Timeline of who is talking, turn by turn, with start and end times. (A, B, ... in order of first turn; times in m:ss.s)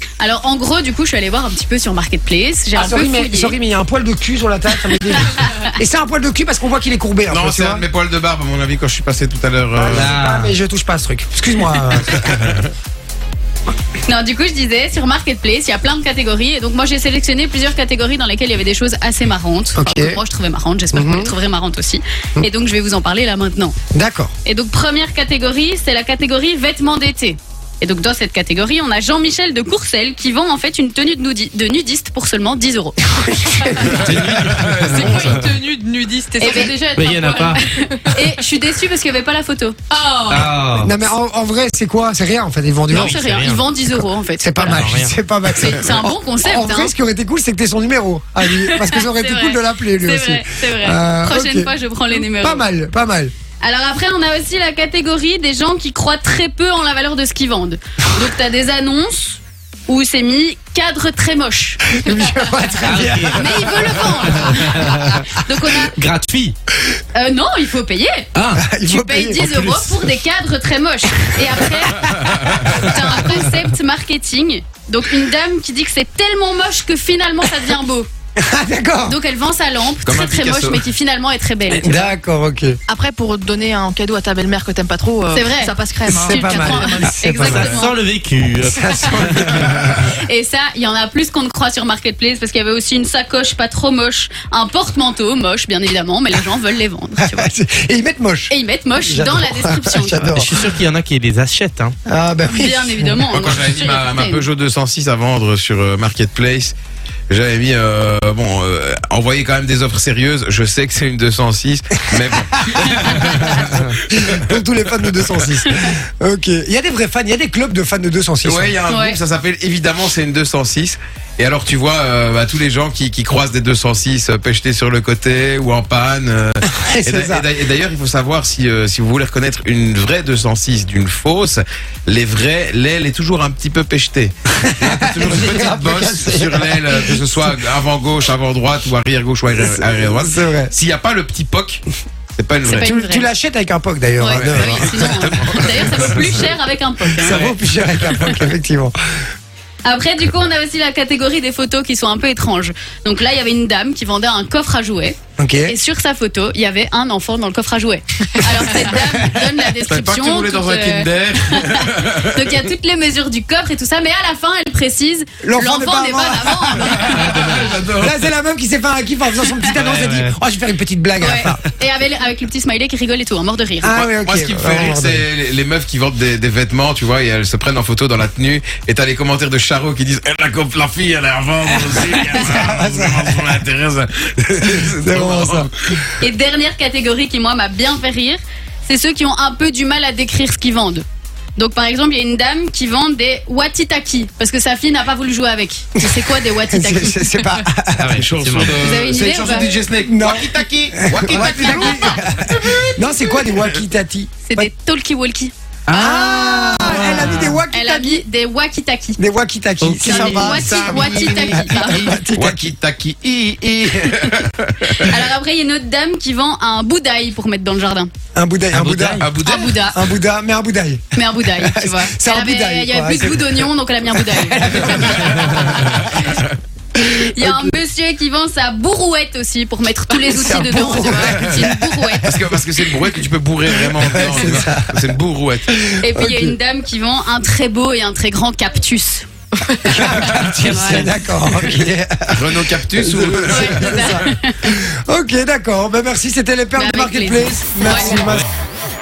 0:00.2-0:03.6 A
0:02.7-0:07.8 B
0:04.8-0:05.7 A
0:07.3-0:10.1 C
0:09.8-0:12.5 B
0:09.9-0:10.5 D
0:12.1-0:12.7 C
0:14.0-0:23.7 A
0:19.7-0:20.2 B
0:20.9-0:21.3 B
0:23.9-0:24.3 B
0:24.4-0:33.9 A
0:33.2-0:34.6 B
0:33.8-0:35.4 C
0:34.0-0:35.4 D
0:34.8-0:38.2 E
0:36.4-0:36.8 A
0:36.9-0:37.6 D
0:37.5-0:40.5 A
0:40.3-0:40.9 D
0:40.8-0:43.2 B
0:42.9-0:43.7 D
0:42.9-0:44.9 A
0:44.4-0:53.3 B
0:44.6-0:45.1 D
0:45.5-0:46.9 A
0:48.5-0:52.6 A
0:53.6-1:02.1 A
1:01.9-1:04.4 B
1:02.8-1:05.3 D
1:03.3-1:05.9 A
1:05.8-1:06.5 D
1:07.1-1:08.3 A
1:08.4-1:08.6 D
1:08.5-1:10.0 B
1:08.8-1:18.1 A
1:12.0-1:13.2 C
1:18.4-1:19.2 B
1:19.0-1:22.0 A
1:20.0-1:20.8 C
1:21.8-1:22.8 B
1:22.9-1:27.8 E
1:25.3-1:28.0 A
1:26.1-1:27.6 B
1:27.4-1:29.9 D
1:28.6-1:30.0 B
1:30.1-1:37.5 A
1:37.2-1:40.5 B
1:38.5-1:40.4 A
1:40.3-1:41.9 D
1:42.1-1:43.2 B
1:42.5-1:44.4 A
1:43.3-1:46.7 C
1:47.3-1:55.4 C
1:53.3-1:58.8 B
1:58.4-2:22.9 C
1:58.9-1:59.2 A
2:06.7-2:07.5 B
2:14.6-2:17.6 B
2:19.6-2:20.7 B
2:22.6-2:23.3 A
2:22.8-2:26.2 B
2:24.2-2:27.5 A
2:24.3-2:26.5 C
2:27.2-2:28.9 B
2:27.2-2:27.5 C
2:29.8-2:47.5 A
2:35.4-2:35.8 B
2:38.5-2:39.0 B
2:39.8-2:42.6 C
2:45.4-2:51.6 B
2:46.8-2:48.3 C
2:47.3-2:47.7 D
2:49.7-2:50.3 D
2:51.2-2:54.0 A
2:53.8-2:55.2 B
2:53.9-3:05.7 C
3:01.8-3:03.6 B
3:04.6-3:05.7 B
3:06.2-3:11.0 A
3:11.6-3:17.5 A
3:16.0-3:18.2 B
3:18.0-3:18.8 D
3:18.1-3:23.8 C
3:18.8-3:19.7 A
3:20.0-3:24.7 B
3:24.4-3:25.5 A
3:25.9-3:27.6 D
3:25.9-3:28.2 B
3:27.0-3:27.3 C
3:27.7-3:29.2 A
3:29.2-3:32.7 B
3:29.8-3:30.7 D
3:30.0-3:35.1 C
3:30.0-3:32.1 A
3:34.9-3:38.1 A
3:38.3-3:39.2 B
3:38.7-3:39.3 D
3:39.2-3:39.9 C
3:39.3-3:40.0 A
3:39.9-3:46.1 B
3:41.1-3:46.3 A
3:45.5-3:46.4 C
3:47.0-3:52.4 A
3:47.0-3:47.8 B
3:50.2-3:53.1 B
3:51.3-3:51.7 C
3:52.2-3:55.7 C
3:53.7-3:55.1 B
3:55.7-3:56.6 B
3:56.0-3:59.3 A
3:59.6-4:00.0 E
3:59.9-4:08.5 B
3:59.9-4:01.2 A
4:02.3-4:04.2 C
4:03.5-4:04.8 A
4:06.8-4:08.2 A